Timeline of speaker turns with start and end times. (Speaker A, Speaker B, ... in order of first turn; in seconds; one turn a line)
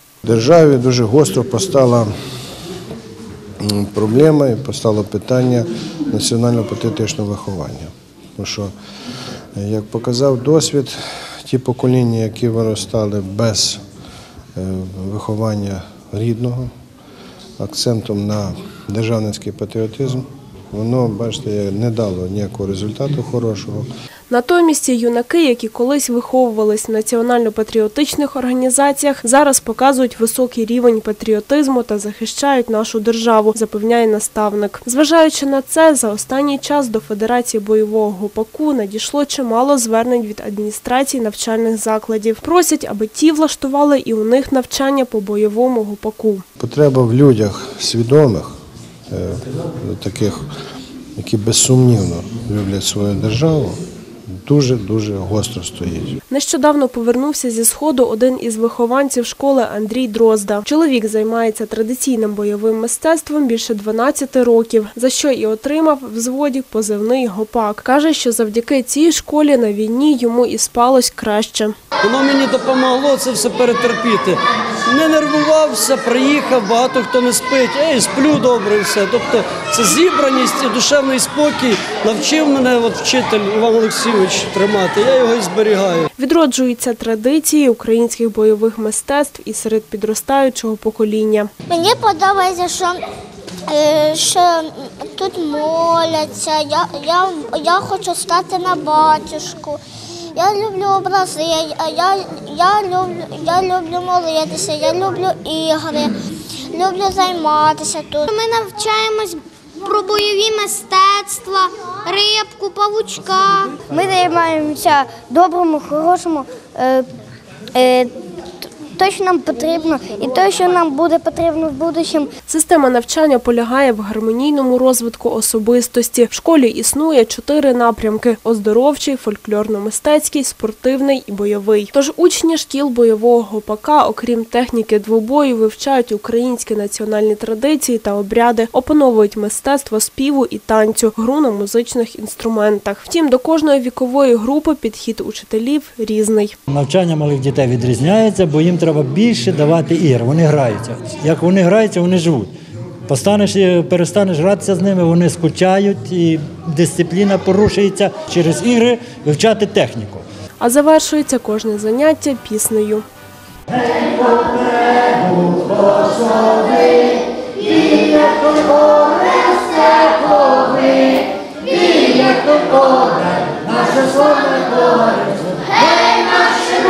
Speaker A: 0.2-2.1
Speaker A: 3.6-8.7
Speaker A: 9.6-13.8
Speaker A: 14.6-16.7
Speaker A: 17.6-23.9
Speaker B: 24.3-46.4
Speaker A: 46.6-48.5
Speaker A: 49.1-50.4
Speaker A: 51.2-53.8
Speaker A: 54.5-56.1
Speaker B: 56.3-71.7
Speaker C: 72.0-86.1
Speaker B: 86.2-91.5
Speaker D: 91.7-93.0
Speaker D: 93.7-99.8
Speaker D: 100.3-106.1
Speaker D: 106.7-108.3
Speaker E: 113.8-117.1
Speaker E: 117.7-118.1
Speaker E: 118.9-122.3
Speaker B: 122.5-146.5
Speaker F: 146.7-152.5
Speaker F: 153.1-160.2
Speaker B: 160.6-163.0
Speaker F: 163.9-171.0
Speaker F: 171.9-175.4